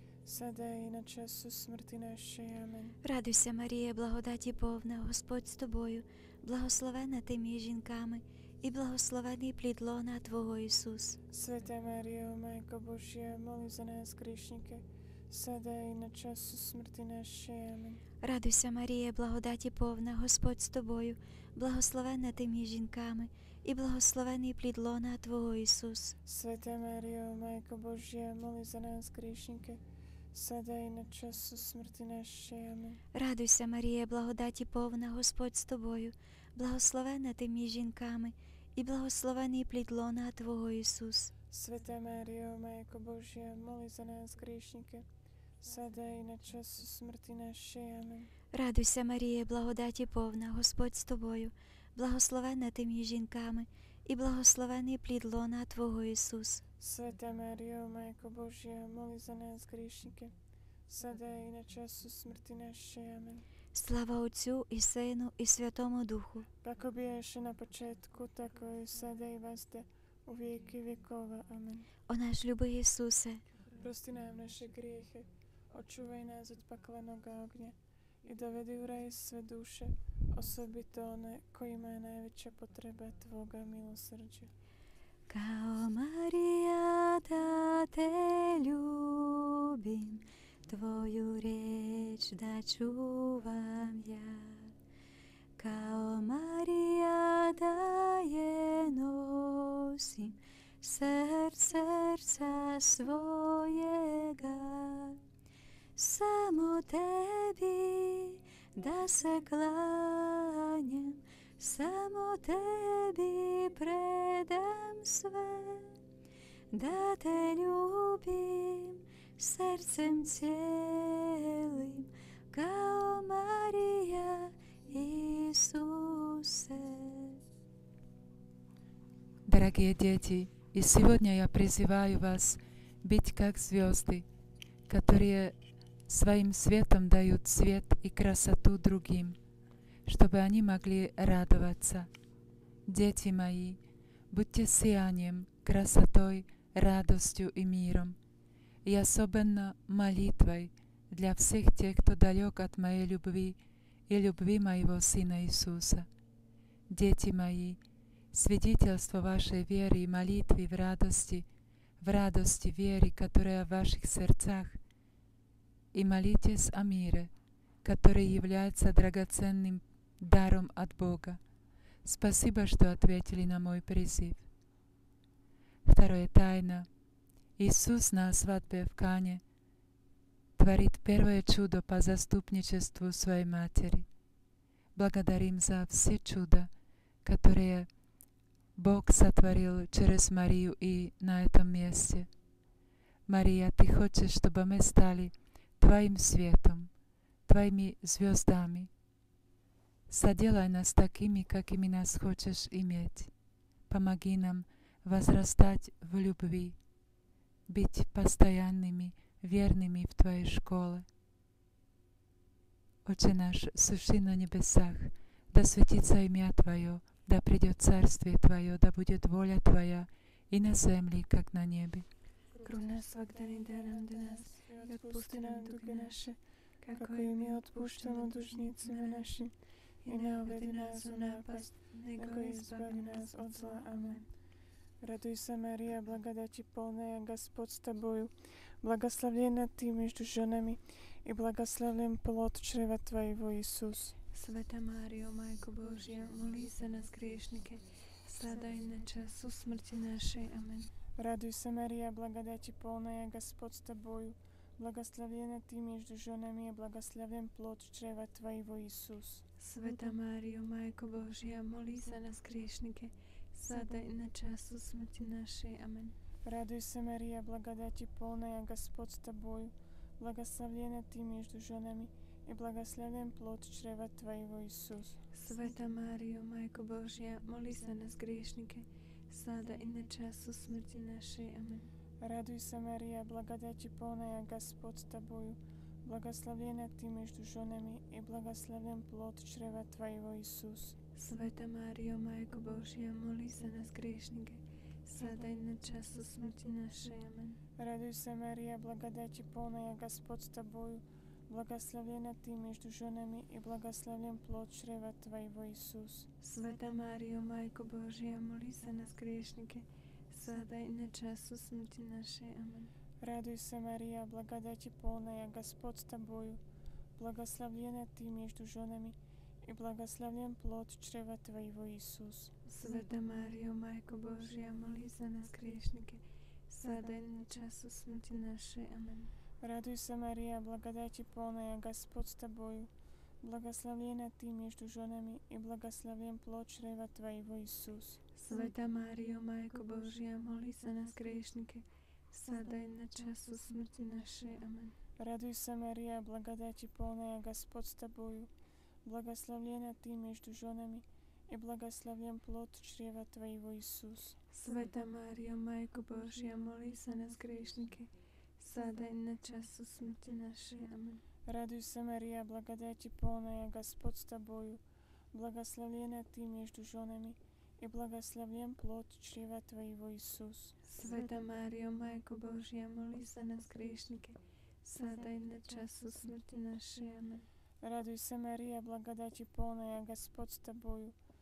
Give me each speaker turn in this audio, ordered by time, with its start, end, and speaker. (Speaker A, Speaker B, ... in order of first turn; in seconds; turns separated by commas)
Speaker A: 0.2-3.0, Speaker B: 3.0-11.2, Speaker A: 11.3-18.0, Speaker B: 18.2-26.1, Speaker A: 26.2-29.8, Speaker A: 30.3-33.0, Speaker B: 33.1-41.3, Speaker A: 41.5-45.1, Speaker A: 45.6-48.3, Speaker B: 48.5-56.6, Speaker A: 56.8-60.3, Speaker A: 60.9-63.5, Speaker B: 63.7-66.5, Speaker A: 66.6-71.9, Speaker B: 72.1-73.4, Speaker A: 73.8-84.5, Speaker B: 85.3-94.7, Speaker B: 95.6-105.2, Speaker B: 106.0-116.0, Speaker B: 116.7-127.4, Speaker C: 129.4-134.2, Speaker C: 134.9-135.6, Speaker C: 136.1-139.4, Speaker C: 140.1-142.1, Speaker C: 142.9-143.8, Speaker C: 144.3-148.2, Speaker C: 148.8-156.1, Speaker C: 156.9-157.8, Speaker C: 158.3-161.5, Speaker C: 162.0-164.8, Speaker C: 165.9-167.3, Speaker C: 167.8-171.4, Speaker C: 172.0-174.5, Speaker C: 175.9-176.9, Speaker C: 177.6-179.4, Speaker C: 180.6-184.1, Speaker C: 184.9-186.7, Speaker C: 187.2-187.9, Speaker C: 188.8-192.3, Speaker C: 193.3-196.9, Speaker C: 197.5-198.9, Speaker C: 200.1-203.3, Speaker C: 203.9-206.8, Speaker C: 207.7-211.1, Speaker C: 213.1-222.1, Speaker D: 222.6-229.5, Speaker A: 224.0-226.4, Speaker A: 226.9-229.5, Speaker D: 230.0-234.3, Speaker A: 230.1-234.2, Speaker A: 235.0-244.2, Speaker D: 244.3-250.9, Speaker A: 251.2-259.4, Speaker D: 259.6-266.1, Speaker A: 266.4-275.2, Speaker D: 275.3-281.9, Speaker A: 282.2-291.0, Speaker D: 291.2-297.6, Speaker A: 297.8-306.3, Speaker D: 306.4-312.9, Speaker A: 313.2-316.6, Speaker A: 317.2-322.6, Speaker D: 322.7-329.3, Speaker A: 329.6-338.2, Speaker D: 338.4-344.9, Speaker A: 345.2-348.5, Speaker A: 349.0-354.4, Speaker D: 354.5-361.2, Speaker A: 361.5-370.8, Speaker D: 370.9-377.5, Speaker A: 377.8-381.2